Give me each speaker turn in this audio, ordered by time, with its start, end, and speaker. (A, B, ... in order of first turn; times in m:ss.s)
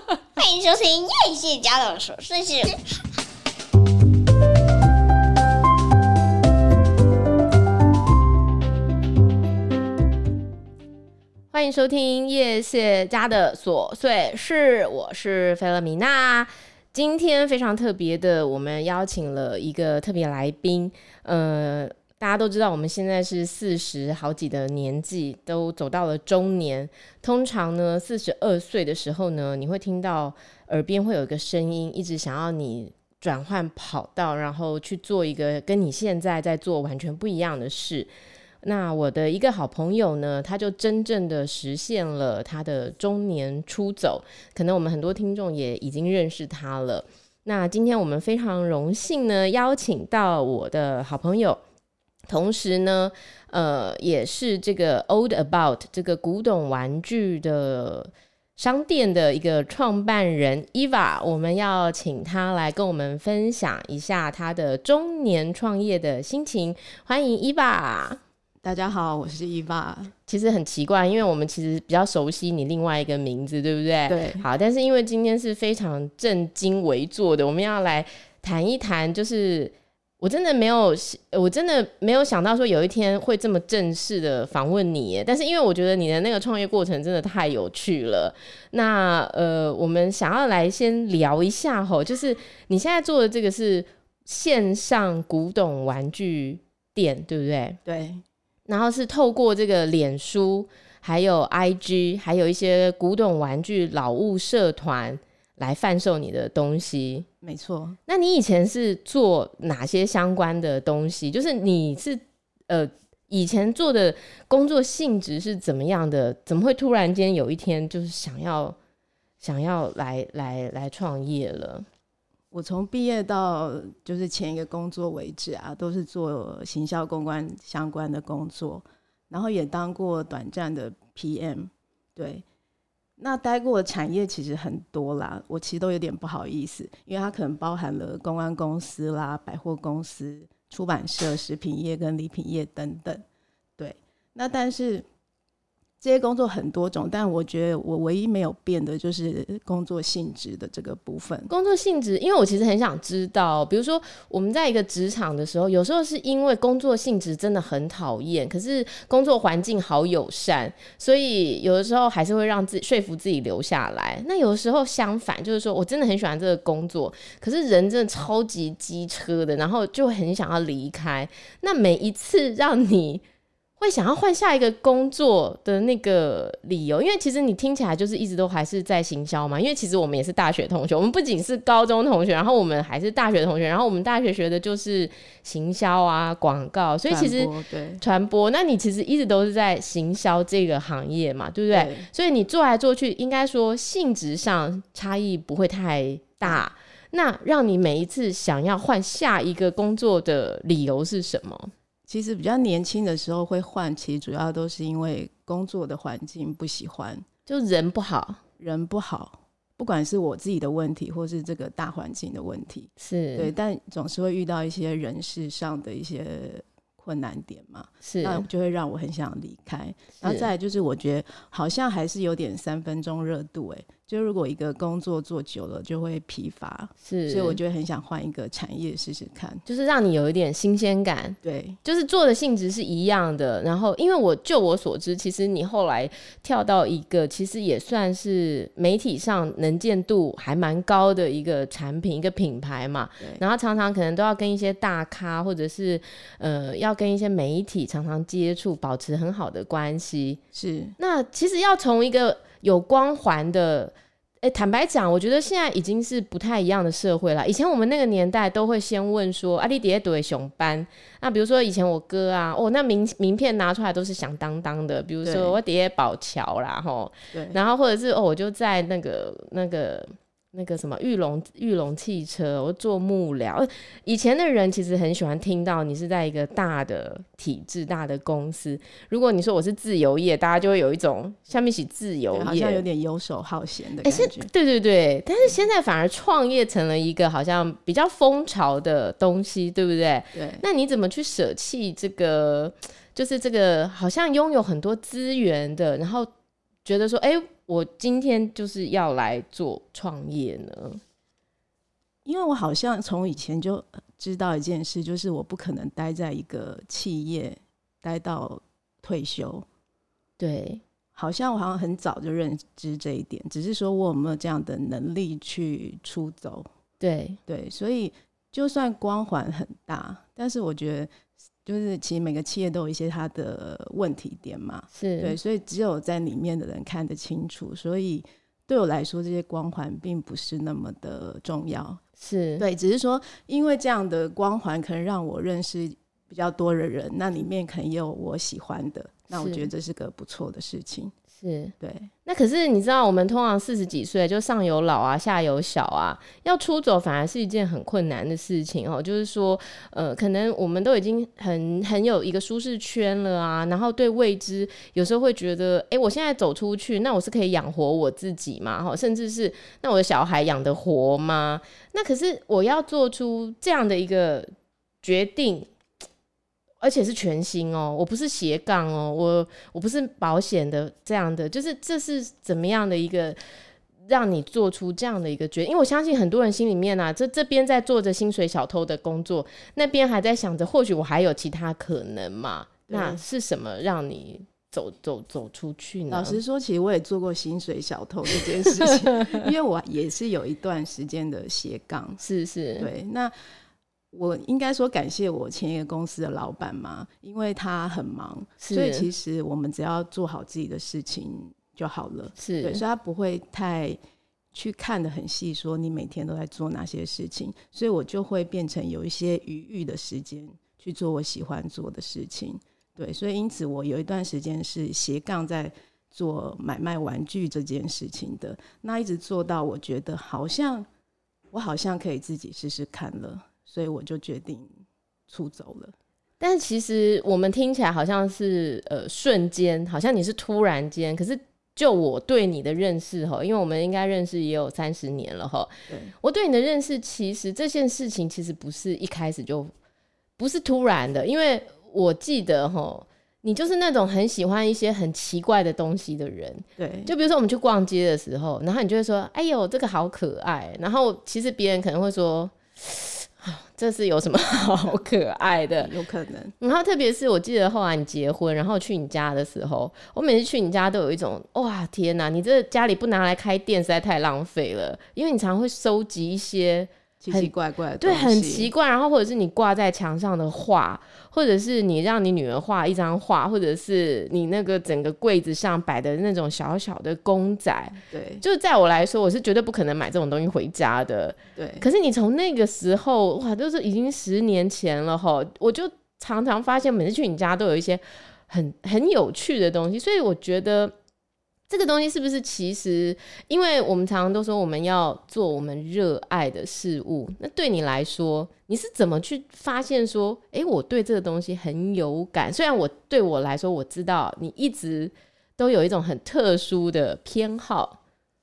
0:00.4-0:02.8 A
0:11.5-0:38.1 B
0:38.6-0:51.6 B
0:52.3-1:08.2 B
1:08.6-1:10.1 C
1:10.3-1:37.8 B
1:14.1-1:14.4 C
1:37.8-1:38.2 C
1:38.7-1:47.3 B
1:47.4-1:48.0 C
1:48.1-1:58.8 B
1:59.4-2:01.9 B
2:02.5-2:12.4 C
2:13.2-2:23.2 C
2:23.8-2:25.0 C
2:26.0-2:31.5 C
2:31.5-2:53.2 B
2:53.8-3:21.7 B
3:07.1-3:08.0 C
3:11.7-3:12.1 C
3:22.1-3:27.2 C
3:27.5-3:28.4 B
3:28.6-3:49.6 C
3:33.0-3:33.5 B
3:38.0-3:38.4 B
3:40.2-3:40.5 B
3:47.0-3:47.6 B
3:49.6-4:10.4 B
3:51.4-3:51.8 C
4:10.5-4:11.0 C
4:11.0-4:42.8 B
4:25.2-4:25.6 C
4:27.3-4:27.6 C
4:42.3-4:44.5 C
4:44.0-4:56.3 B
4:50.3-4:50.6 C
4:56.8-5:01.0 B
5:02.2-5:09.6 C
5:10.4-5:10.8 B
5:11.1-5:16.7 C
5:17.0-5:17.4 B
5:17.5-5:21.1 C
5:21.6-5:32.0 C
5:24.9-5:25.4 B
5:32.2-5:32.6 B
5:32.6-5:41.1 C
5:39.3-5:39.7 B
5:41.4-5:41.7 B
5:41.8-5:42.1 C
5:42.2-6:04.5 B
6:05.0-6:05.7 B
6:06.8-6:13.4 B
6:14.0-6:26.4 B
6:22.9-6:23.2 C
6:26.1-6:32.2 C
6:28.6-6:29.4 B
6:32.2-6:32.9 B
6:32.8-6:33.6 C
6:34.1-6:44.0 C
6:38.6-6:39.1 B
6:42.4-6:42.8 B
6:44.5-7:00.9 C
7:01.5-7:04.7 C
7:05.3-7:05.9 C
7:06.4-7:19.7 B
7:15.9-7:16.1 C
7:20.4-7:35.9 B
7:26.8-7:27.1 C
7:35.8-7:36.5 C
7:36.6-8:10.9 B
7:47.2-7:48.7 C
7:58.1-7:58.4 C
8:01.5-8:01.8 C
8:11.7-8:28.0 B